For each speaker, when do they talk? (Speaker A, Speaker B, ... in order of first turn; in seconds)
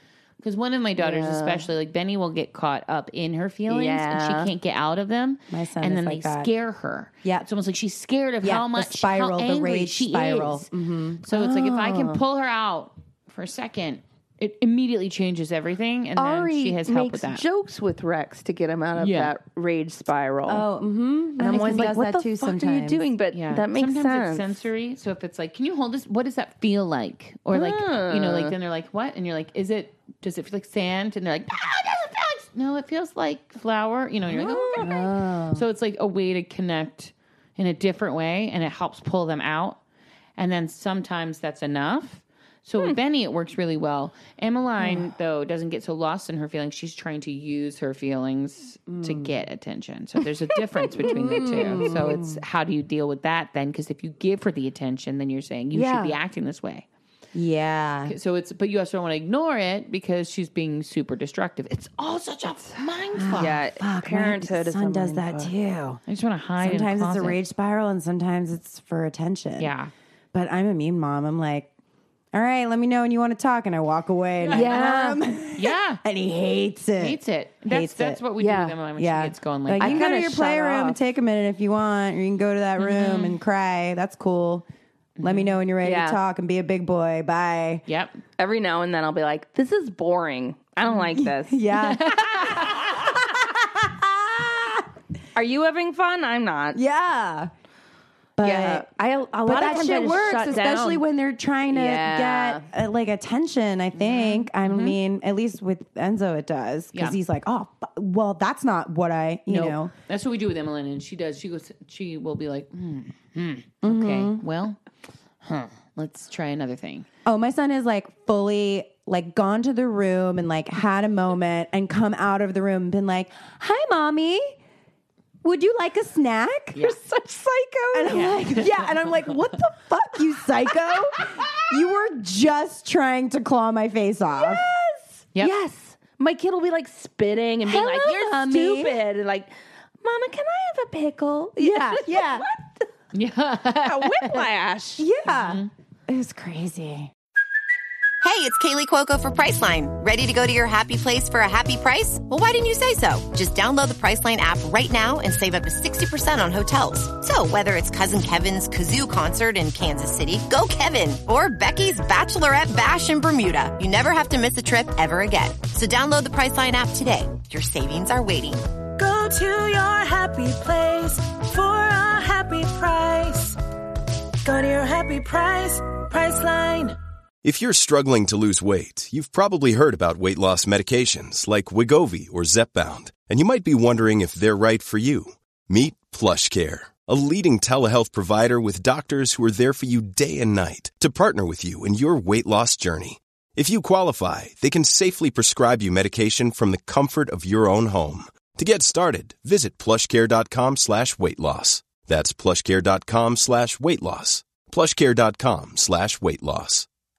Speaker A: 0.4-10.7, 11.2-17.4, 19.0-19.3, 21.5-21.9, 23.3-39.8, 40.4-56.9, 58.1-63.6, 66.1-67.4, 69.6-69.9, 74.5-74.7, 75.6-76.0, 77.0-80.1, 82.8-83.4, 85.2-85.5, 87.9-88.2, 91.8-93.1, 104.0-105.0, 109.5-114.8, 115.4-117.1, 128.1-128.6, 143.1-144.5, 145.3-145.7
Speaker B: 1.0-1.7, 3.7-4.5, 11.3-12.2, 16.2-20.6, 21.4-24.6, 27.5-28.6, 34.3-34.9, 51.0-51.9, 55.7-56.2, 63.4-65.5, 74.5-75.2, 78.4-78.8, 79.8-81.0, 85.8-86.2, 88.4-91.6, 95.3-96.8, 98.4-101.0, 101.7-102.7, 126.8-128.7, 134.3-139.5, 140.0-142.9, 143.8-145.1
Speaker C: 5.5-6.5, 8.4-11.4, 20.5-23.0, 34.8-35.6, 48.9-49.3, 51.0-52.4, 57.3-58.1, 63.1-66.0, 66.6-69.7, 70.3-71.7, 72.3-78.2, 79.0-84.7, 85.2-87.8, 91.2-94.8, 96.7-97.5, 98.4-98.9, 99.4-109.9, 113.8-114.4, 117.2-124.6, 125.4-126.8, 127.9-134.7, 137.6-139.0, 141.6-142.5, 145.0-147.1
Speaker D: 148.2-168.7
Speaker E: 169.0-173.6, 174.4-177.0
Speaker F: 177.4-206.9